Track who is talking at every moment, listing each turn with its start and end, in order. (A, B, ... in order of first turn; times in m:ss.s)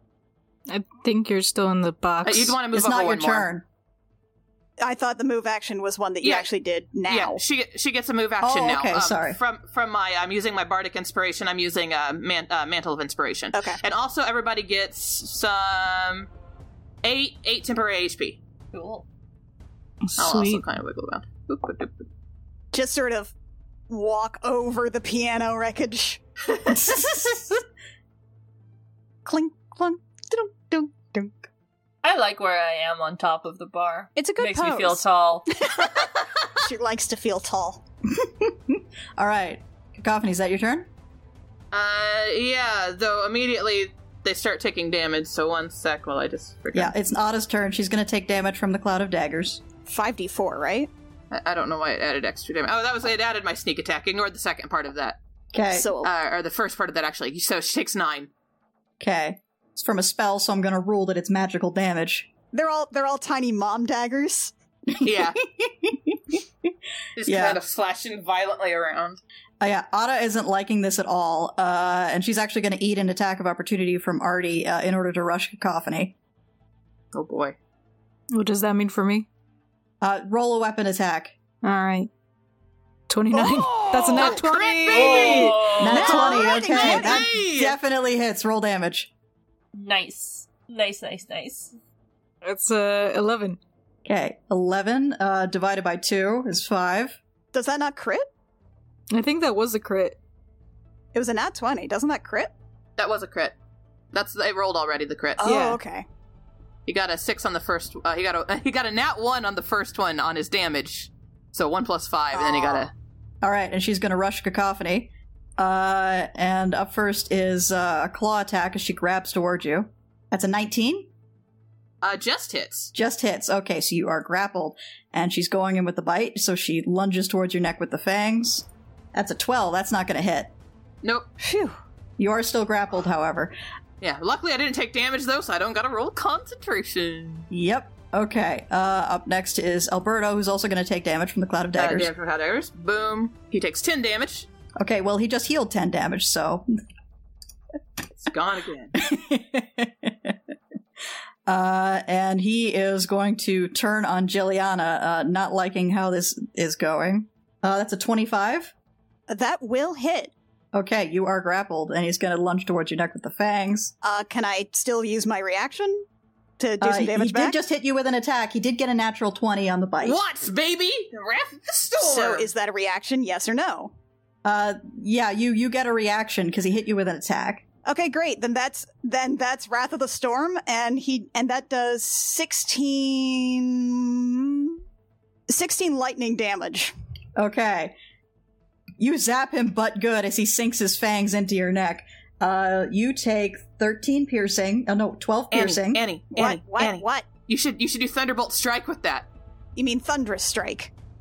0:00.7-0:02.6 A
0:02.2-0:03.5 B
0:02.7-0:03.6 C
0:04.8-0:07.4 D
0:06.2-0:06.5 B
0:07.1-0:16.3 B
0:08.4-0:09.4 C
0:13.5-0:13.8 D
0:17.0-0:18.4 B
0:18.7-0:19.1 E
0:20.0-0:20.6 A
0:20.2-0:22.0 B
0:22.7-0:23.3 D
0:23.9-0:26.2 D
0:26.7-0:27.6 C
0:29.2-0:31.3 D
0:32.0-0:35.5 E
0:34.2-0:35.0 D
0:35.6-0:37.8 D
0:38.1-0:40.9 C
0:41.7-0:46.9 B
0:46.7-0:49.6 C
0:49.9-0:50.9 D
0:51.3-0:55.2 B
0:55.5-0:55.9 C
0:55.7-0:56.1 D
0:56.0-0:58.3 B
0:59.0-1:02.3 C
1:02.5-1:04.5 D
1:04.9-1:06.4 C
1:05.0-1:05.4 B
1:07.2-1:09.2 B
1:07.3-1:07.6 C
1:09.6-1:16.2 C
1:17.1-1:17.6 B
1:18.3-1:19.3 A
1:20.0-1:21.4 C
1:21.6-1:22.1 A
1:23.1-1:25.6 A
1:23.3-1:27.8 B
1:24.0-1:27.2 D
1:24.9-1:26.3 E
1:25.8-1:29.1 C
1:29.7-1:31.8 E
1:32.4-1:33.6 A
1:34.0-1:37.2 C
1:37.5-1:38.3 D
1:39.1-1:40.2 A
1:41.1-1:42.5 D
1:43.0-1:43.6 B
1:44.1-1:45.5 B
1:45.4-1:46.1 D
1:45.4-1:45.8 A
1:46.9-1:52.9 B
1:52.3-1:52.9 D
1:53.4-2:01.1 C
2:02.0-2:02.9 B
2:02.9-2:10.5 C
2:11.0-2:11.3 B
2:11.4-2:11.8 D
2:12.2-2:13.5 C
2:14.0-2:17.5 B
2:17.5-2:22.1 C
2:21.8-2:24.5 B
2:24.8-2:26.7 C
2:28.2-2:29.0 B
2:29.0-2:30.4 C
2:31.5-2:38.7 C
2:39.3-2:40.3 D
2:40.7-2:43.9 C
2:44.0-2:46.0 D
2:46.6-2:47.6 D
2:46.8-2:50.2 C
2:50.0-2:52.5 B
2:52.0-2:53.9 D
2:54.4-2:57.6 C
2:57.8-3:04.8 D
3:05.5-3:06.9 D
3:07.4-3:08.0 C
3:09.0-3:16.0 C
3:15.5-3:19.3 B
3:16.3-3:17.3 D
3:19.8-3:20.9 D